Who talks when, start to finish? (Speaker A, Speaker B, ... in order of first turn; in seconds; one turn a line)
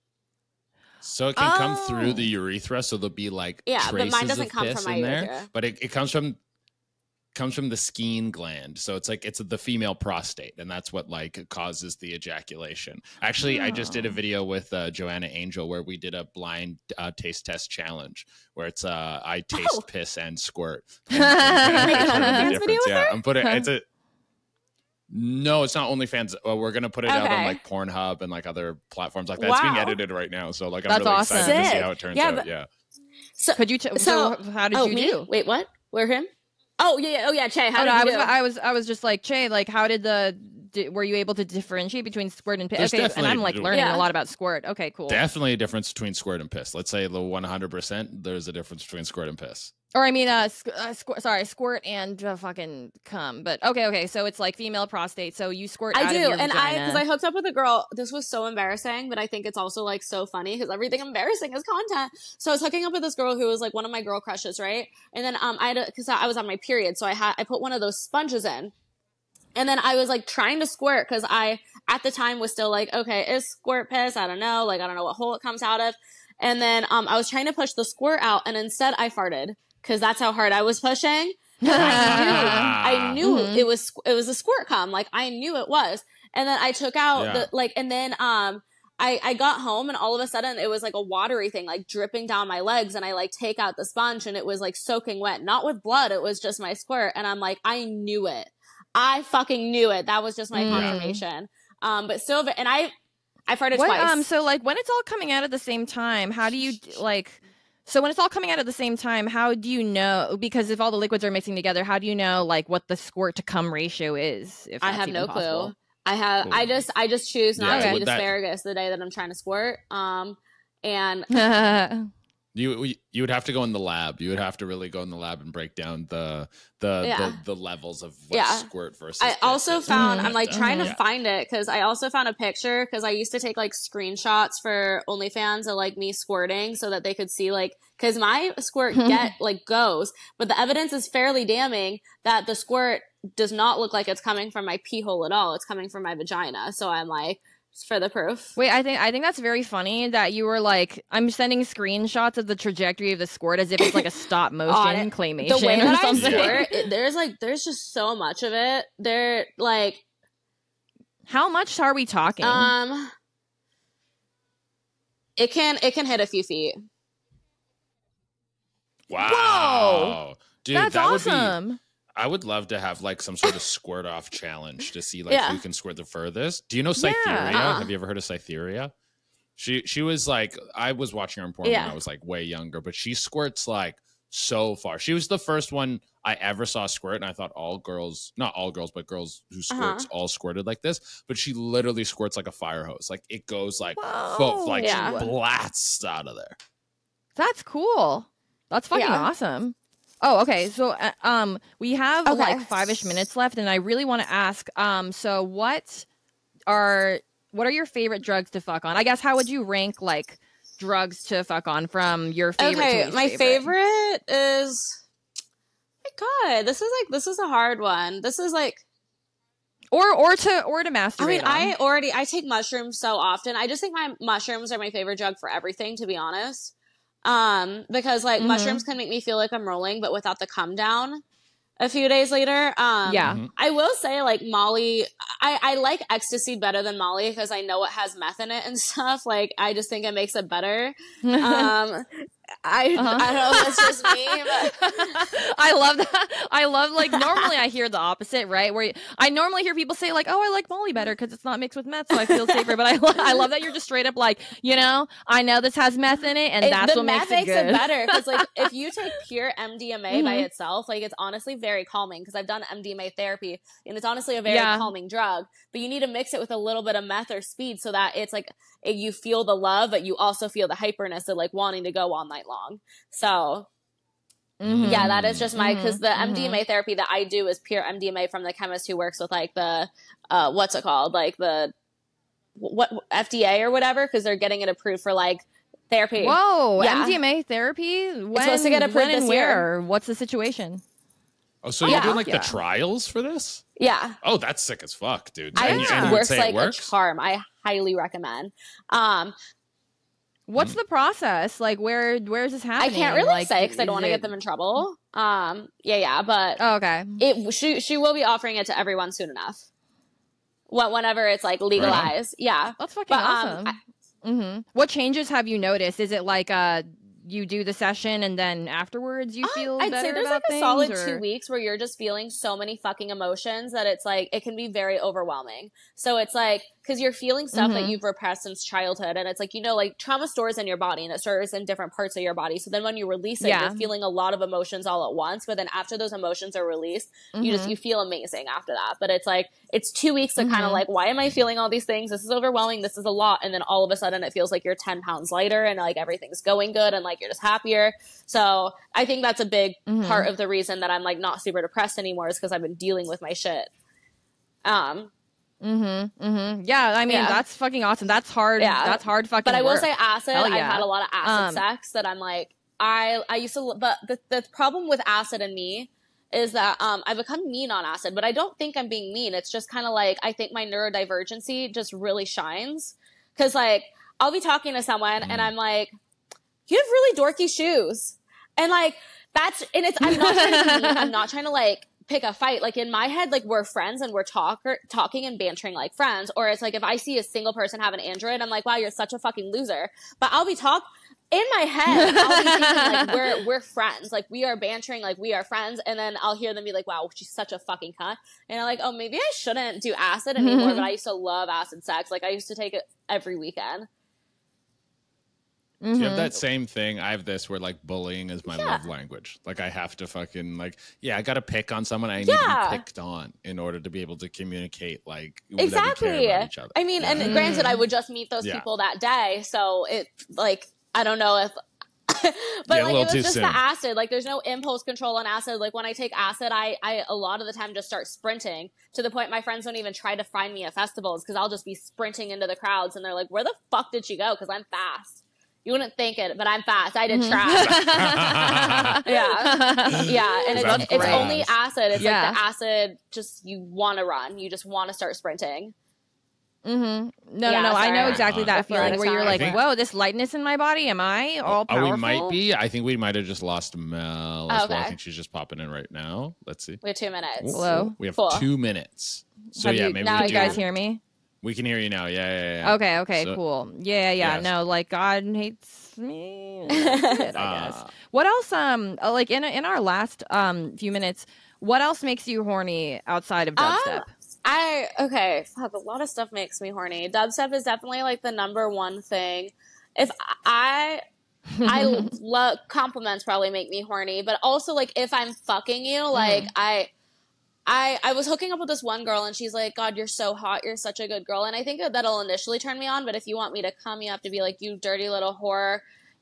Speaker A: 1.0-6.4
Speaker B: 1.4-2.3
Speaker C: 3.7-5.5
Speaker A: 7.3-23.9
Speaker B: 13.4-14.2
Speaker C: 19.5-19.9
Speaker B: 21.1-22.6
Speaker C: 21.7-23.2
Speaker B: 23.4-23.7
Speaker A: 25.1-32.7
Speaker C: 27.1-27.6
Speaker C: 29.4-30.0
Speaker B: 30.9-31.8
Speaker C: 31.3-32.5
Speaker C: 33.4-36.3
Speaker B: 33.6-35.3
Speaker C: 36.8-38.3
Speaker B: 37.8-45.2
Speaker A: 42.8-43.8
Speaker C: 43.7-44.1
Speaker A: 45.1-49.7
Speaker B: 49.9-57.0
Speaker C: 55.9-68.7
Speaker C: 69.6-102.9
Speaker B: 81.6-83.7
Speaker A: 81.7-83.2
Speaker A: 87.2-87.5
Speaker B: 100.5-101.2
Speaker A: 100.7-101.0
Speaker C: 103.5-104.2
Speaker B: 103.7-115.7
Speaker C: 114.8-121.3
Speaker A: 116.4-116.8
Speaker A: 117.6-118.3
Speaker B: 117.7-118.0
Speaker B: 121.3-122.1
Speaker A: 122.5-131.0
Speaker C: 127.0-127.4
Speaker C: 128.3-128.7
Speaker C: 129.2-148.6
Speaker B: 129.9-130.9
Speaker B: 138.9-139.3
Speaker B: 148.6-156.8
Speaker C: 154.7-160.0
Speaker A: 156.2-156.7
Speaker B: 161.3-162.7
Speaker C: 162.4-163.1
Speaker C: 165.4-166.8
Speaker A: 169.1-171.6
Speaker B: 169.2-170.2
Speaker B: 170.7-171.8
Speaker A: 172.2-178.9
Speaker C: 175.3-175.6
Speaker B: 177.0-177.7
Speaker C: 177.5-177.9
Speaker A: 179.6-196.6
Speaker C: 181.6-182.0
Speaker C: 189.7-190.1
Speaker B: 194.0-195.3
Speaker C: 194.8-195.2
Speaker B: 197.4-206.1
Speaker C: 198.9-199.3
Speaker C: 202.3-203.2
Speaker B: 206.7-213.7
Speaker C: 212.6-215.0
Speaker C: 216.1-218.8
Speaker B: 219.9-221.7
Speaker C: 221.2-226.7
Speaker C: 227.2-231.2
Speaker B: 228.4-228.8
Speaker C: 231.8-245.3
Speaker B: 233.1-233.4
Speaker A: 233.2-233.5
Speaker B: 241.2-241.7
Speaker B: 243.0-259.2
Speaker C: 247.1-247.5
Speaker C: 252.2-252.7
Speaker C: 256.6-273.7
Speaker B: 260.1-260.5
Speaker B: 264.5-264.9
Speaker B: 274.6-276.6
Speaker A: 274.6-275.5
Speaker C: 274.8-281.7
Speaker C: 282.6-287.2
Speaker B: 286.2-290.8
Speaker C: 288.3-289.7
Speaker A: 291.6-293.6
Speaker B: 291.8-292.6
Speaker C: 291.9-292.2
Speaker C: 293.8-294.2
Speaker A: 294.2-296.9
Speaker C: 295.6-299.4
Speaker B: 295.6-296.2
Speaker B: 300.5-304.3
Speaker C: 302.8-306.6
Speaker B: 306.6-307.2
Speaker C: 307.2-309.6
Speaker C: 310.7-313.8
Speaker A: 311.8-312.1
Speaker B: 312.8-321.2
Speaker C: 319.4-353.7
Speaker B: 327.5-328.0
Speaker B: 333.4-333.9
Speaker B: 337.4-337.7
Speaker B: 340.4-340.8
Speaker B: 349.9-350.3
Speaker C: 354.6-355.1
Speaker B: 355.6-361.6
Speaker C: 357.1-357.4
Speaker C: 358.6-375.9
Speaker A: 375.2-375.5
Speaker C: 376.7-403.9
Speaker B: 380.1-381.1
Speaker B: 391.9-393.1
Speaker B: 400.4-400.9
Speaker B: 405.8-406.4
Speaker A: 406.0-417.7
Speaker C: 408.5-408.8
Speaker C: 412.2-412.8
Speaker C: 415.6-421.6
Speaker B: 417.2-417.8
Speaker C: 422.1-438.1
Speaker A: 422.7-423.6
Speaker B: 437.1-441.3
Speaker A: 437.6-439.0
Speaker C: 439.0-445.7
Speaker A: 440.0-442.1
Speaker B: 442.0-442.4
Speaker B: 446.6-452.4
Speaker C: 447.5-449.6
Speaker A: 448.0-449.6
Speaker A: 451.5-456.8
Speaker C: 454.5-455.0
Speaker C: 456.8-458.5
Speaker A: 457.4-460.6
Speaker B: 457.5-457.9
Speaker B: 459.6-461.0
Speaker C: 460.0-460.6
Speaker A: 461.4-463.4
Speaker B: 462.6-474.1
Speaker A: 464.2-464.5
Speaker C: 466.7-467.3
Speaker A: 467.4-467.9
Speaker C: 473.6-481.0
Speaker B: 481.6-482.1
Speaker C: 481.6-486.9
Speaker B: 486.1-486.5
Speaker C: 487.7-495.8